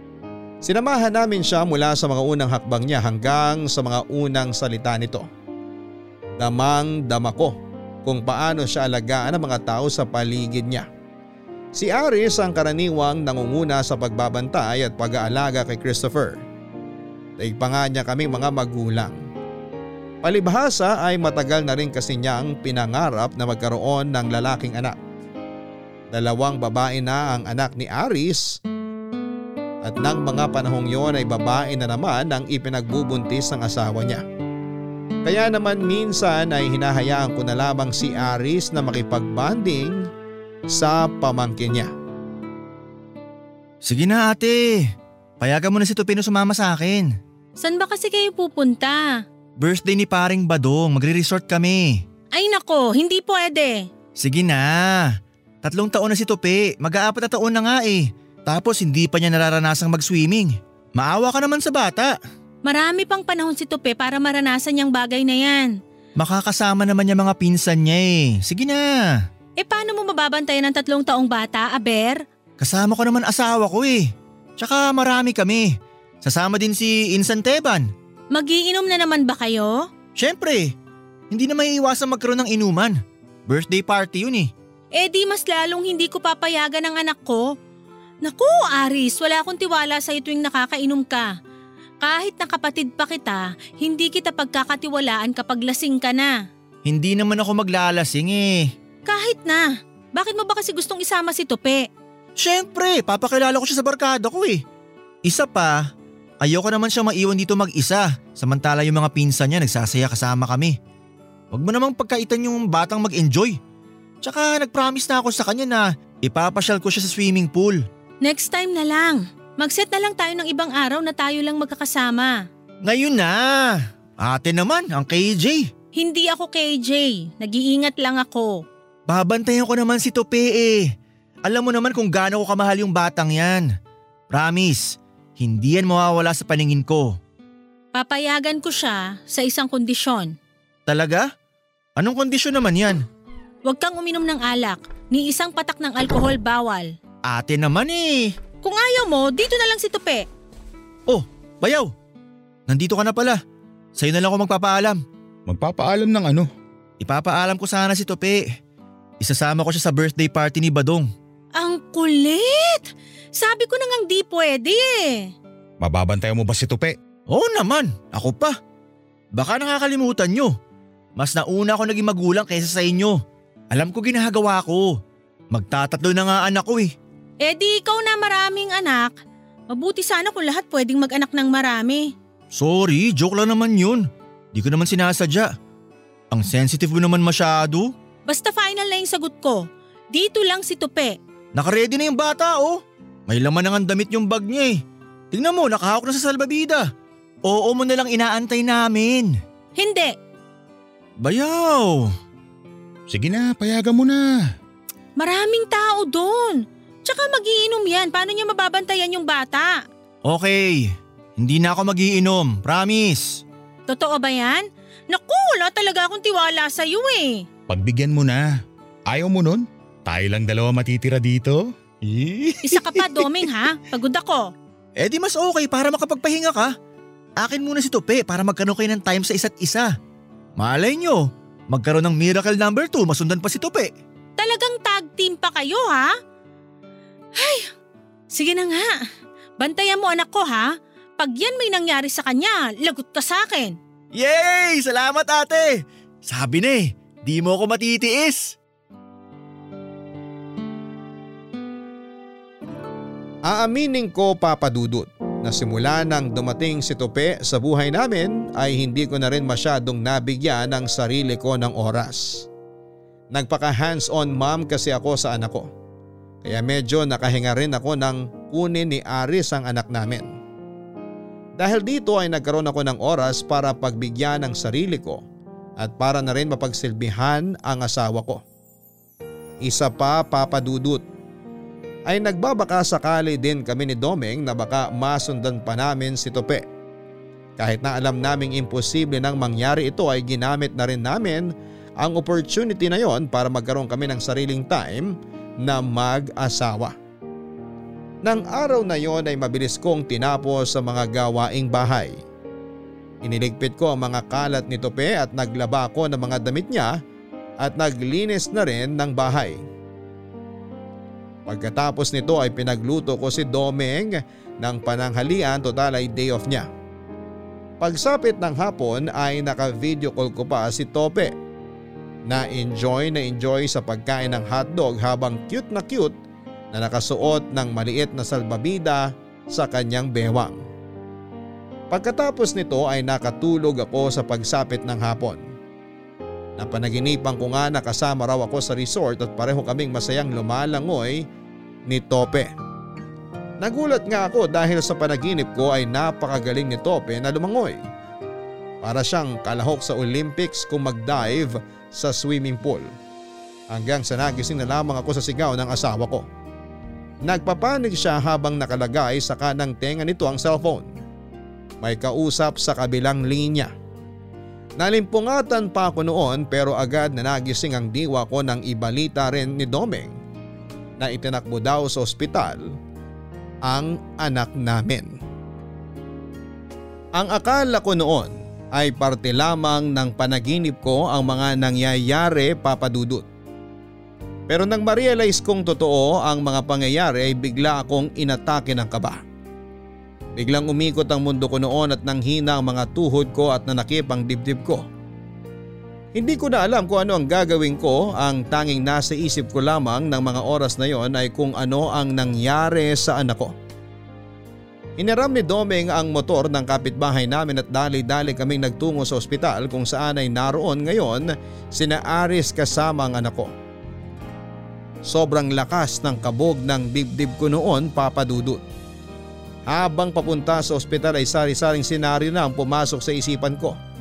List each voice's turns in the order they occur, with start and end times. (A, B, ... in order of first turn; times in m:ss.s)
0:00.6-0:05.3 A
0:06.4-0:10.9 A
0:11.8-0:16.4 A
0:17.4-0:19.2 A
0:20.2-0:25.0 A
0:26.1-0:28.6 A
0:29.8-0:34.2 A
0:35.2-0:40.1 A
0:40.7-0:41.9 A
0:43.8-0:47.1 B
0:47.6-0:49.2 C
0:49.6-0:52.0 B
0:52.3-0:53.9 C
0:54.2-0:55.1 B
0:55.6-1:02.1 B
1:02.7-1:05.7 C
1:06.2-1:09.2 B
1:09.6-1:12.2 C
1:12.6-1:15.7 B
1:16.2-1:17.9 B
1:18.3-1:19.9 C
1:20.2-1:20.7 B
1:21.3-1:23.0 B
1:23.5-1:24.5 B
1:25.0-1:27.4 C
1:28.2-1:31.3 C
1:32.0-1:36.4 C
1:36.9-1:38.7 B
1:39.1-1:41.9 C
1:42.4-1:44.6 B
1:45.3-1:45.8 B
1:46.4-1:50.8 B
1:51.5-1:53.6 B
1:54.2-1:57.8 B
1:58.2-2:02.3 C
2:02.8-2:05.7 B
2:06.0-2:08.6 C
2:09.1-2:10.9 B
2:11.5-2:13.7 B
2:14.3-2:17.2 B
2:18.0-2:20.4 C
2:20.9-2:21.3 B
2:22.0-2:23.0 B
2:23.7-2:26.9 C
2:27.3-2:28.3 B
2:28.6-2:30.2 C
2:31.1-2:31.9 B
2:32.7-2:33.4 B
2:34.0-2:35.0 B
2:35.5-2:36.5 D
2:37.0-2:38.5 B
2:39.2-2:41.1 B
2:41.6-2:45.3 C
2:45.8-2:47.0 D
2:47.3-2:48.5 B
2:49.3-2:50.5 B
2:51.2-2:53.2 B
2:53.7-2:54.9 B
2:55.5-2:56.9 B
2:57.4-2:59.2 C
2:59.7-3:02.1 C
3:02.5-3:05.5 B
3:06.3-3:07.9 B
3:08.3-3:11.2 C
3:11.6-3:14.8 B
3:15.3-3:16.8 B
3:17.5-3:19.3 B
3:19.8-3:20.1 C
3:21.2-3:22.1 B
3:23.1-3:24.2 D
3:25.2-3:29.8 C
3:30.3-3:33.4 B
3:33.9-3:37.4 C
3:37.7-3:38.5 D
3:39.1-3:41.6 D
3:42.0-3:43.3 B
3:42.6-3:44.4 C
3:45.0-3:46.7 B
3:47.4-3:49.9 B
3:50.6-3:53.9 B
3:54.4-3:56.1 C
3:57.4-3:57.7 C
3:58.3-3:59.0 C
3:59.6-4:03.8 C
4:04.2-4:08.6 B
4:13.4-4:22.5 A
4:23.3-4:25.7 A
4:26.4-4:30.4 A
4:31.6-4:35.2 A
4:35.8-4:38.4 A
4:39.6-4:41.0 A
4:42.1-4:46.6 A
4:47.6-4:57.0 A
4:58.2-5:02.2 A
5:03.2-5:07.0 A
5:07.6-5:09.6 A
5:11.5-5:16.7 A
5:17.8-5:21.3 A
5:22.3-5:26.1 A
5:26.7-5:30.6 A
5:31.9-5:35.4 A
5:36.6-5:41.3 A
5:41.9-5:42.5 A
5:43.6-5:47.8 A
5:48.8-5:52.9 A
5:53.7-5:56.2 A
5:57.2-6:00.9 A
6:01.8-6:03.7 A
6:04.8-6:10.2 A
6:11.0-6:12.7 A
6:13.6-6:15.2 A
6:17.2-6:23.3 A
6:24.5-6:29.2 A
6:30.4-6:34.8 A
6:36.2-6:43.5 A
6:45.0-6:53.5 A
6:55.0-6:58.6 A
6:59.7-7:03.8 A